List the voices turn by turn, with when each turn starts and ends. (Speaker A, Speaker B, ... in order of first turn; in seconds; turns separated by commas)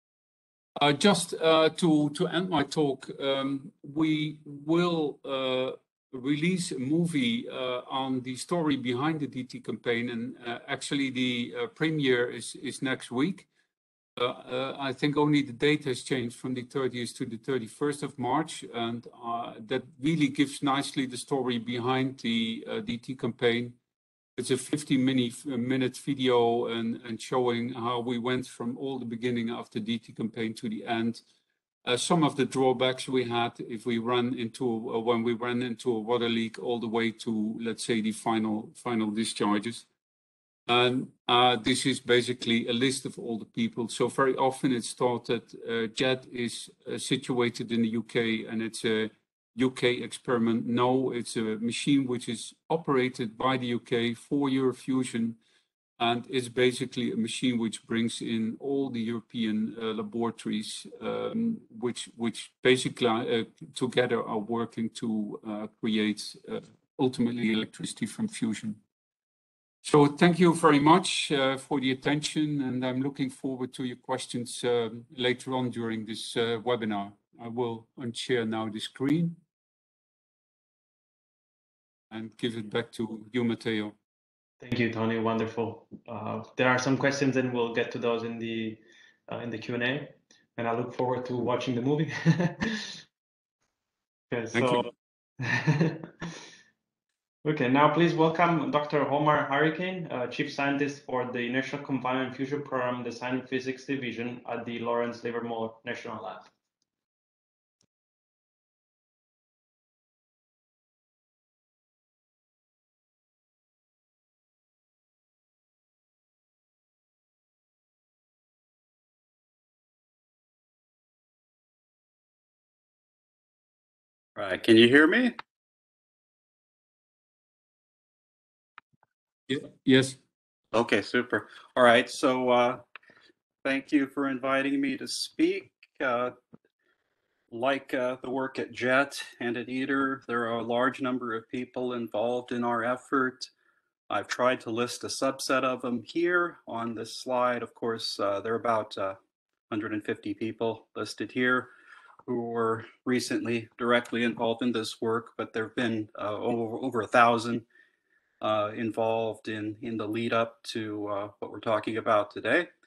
Speaker A: 0.8-13.5, Speaker A: 14.2-23.8, Speaker A: 24.4-31.2, Speaker A: 31.8-39.9, Speaker A: 40.7-55.4, Speaker A: 56.0-68.8, Speaker A: 69.8-79.4, Speaker A: 82.1-84.0, Speaker B: 84.6-93.0, Speaker B: 94.3-96.3, Speaker A: 94.5-94.9, Speaker B: 97.4-106.5, Speaker C: 124.3-125.4, Speaker A: 129.5-130.2, Speaker C: 130.7-132.8, Speaker C: 133.6-136.3, Speaker C: 137.5-143.5, Speaker C: 144.1-149.2, Speaker C: 149.7-151.7, Speaker C: 152.2-157.6, Speaker C: 158.4-162.7